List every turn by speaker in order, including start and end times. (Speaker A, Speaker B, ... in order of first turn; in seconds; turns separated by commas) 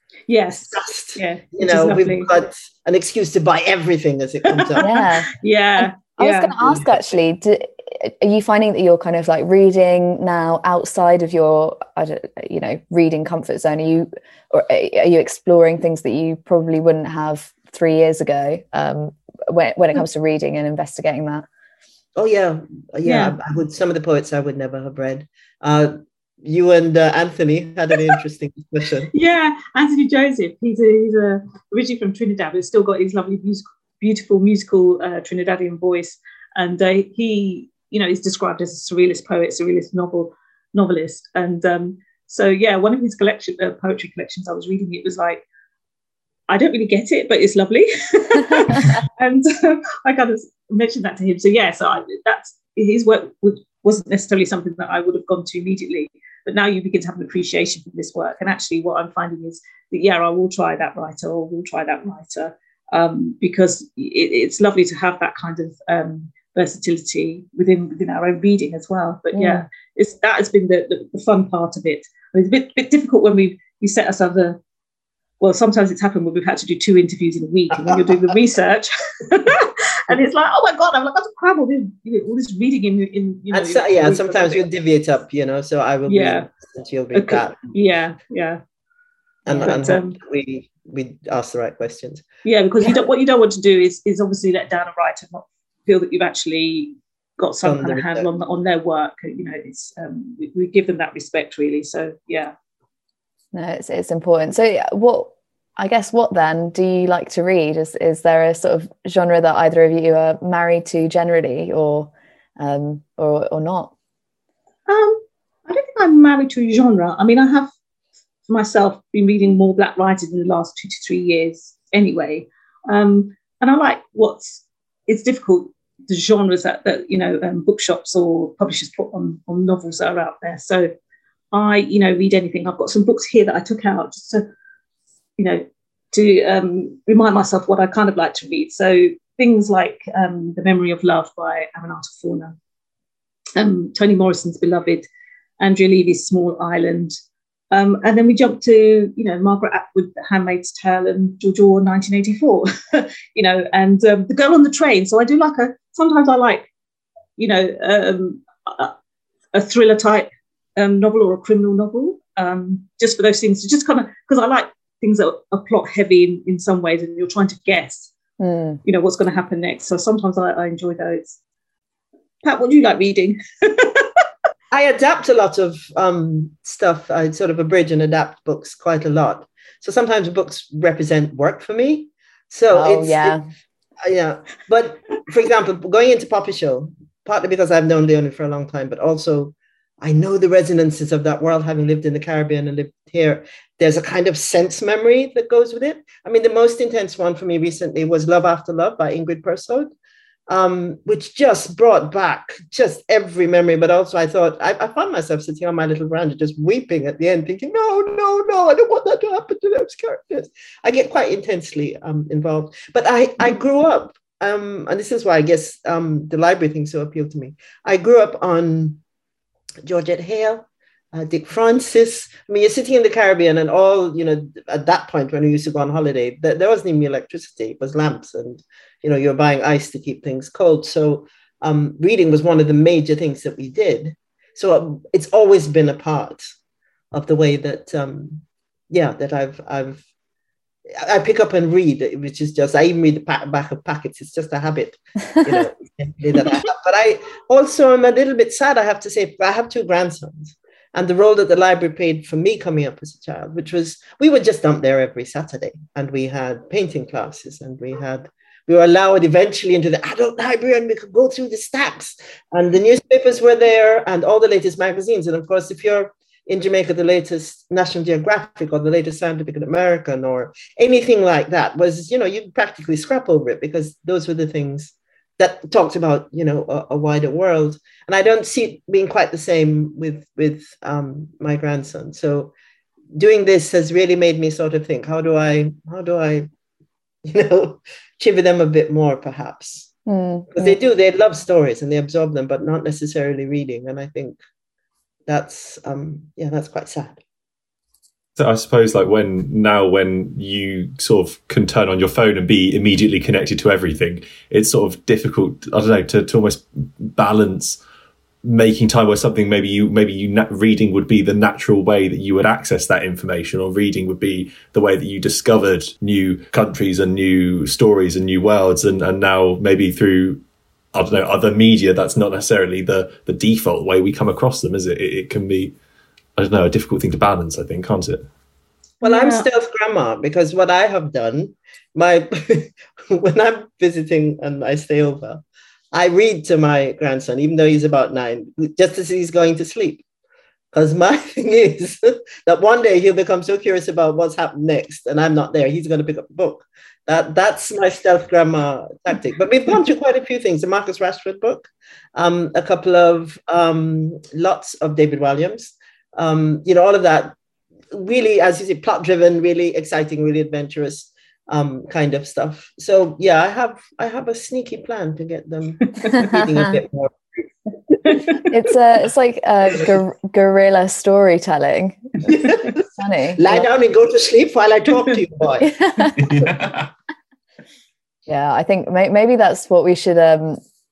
Speaker A: 0.3-2.3, Speaker B: 0.7-4.9, Speaker A: 4.5-6.5, Speaker C: 4.8-21.4, Speaker B: 6.6-7.0, Speaker B: 22.1-29.1, Speaker A: 23.0-23.4, Speaker A: 29.1-45.4, Speaker A: 46.5-74.6, Speaker C: 69.3-69.6, Speaker A: 75.4-84.6, Speaker B: 77.8-78.2, Speaker B: 83.5-87.7, Speaker A: 86.1-86.5, Speaker A: 87.1-88.6, Speaker B: 89.4-92.2, Speaker A: 89.5-90.2, Speaker A: 92.4-102.5, Speaker B: 97.6-98.3, Speaker C: 103.5-113.9, Speaker A: 114.9-117.7, Speaker A: 118.5-130.9, Speaker A: 131.5-134.4, Speaker A: 135.4-142.5, Speaker A: 143.6-145.0, Speaker A: 145.6-147.1, Speaker A: 147.7-156.7, Speaker A: 157.4-158.9, Speaker A: 159.5-168.1, Speaker C: 168.4-168.8, Speaker A: 168.8-171.4, Speaker A: 172.4-174.1, Speaker B: 174.7-183.4, Speaker C: 182.7-183.4, Speaker B: 184.0-199.9, Speaker B: 200.5-219.0, Speaker B: 219.8-236.5, Speaker B: 237.1-240.0, Speaker B: 240.9-282.5, Speaker B: 283.1-286.5, Speaker B: 287.2-289.9, Speaker C: 290.1-290.7, Speaker B: 290.5-294.4, Speaker B: 295.3-297.2, Speaker D: 298.4-307.8, Speaker D: 308.4-320.4, Speaker D: 320.9-325.7, Speaker D: 326.4-328.3, Speaker A: 329.0-329.5, Speaker B: 329.0-340.0, Speaker B: 340.7-357.4, Speaker B: 357.9-367.4, Speaker C: 368.4-373.6, Speaker B: 372.3-372.7, Speaker B: 373.4-376.4, Speaker C: 375.7-376.2, Speaker D: 376.2-376.9, Speaker C: 378.3-380.6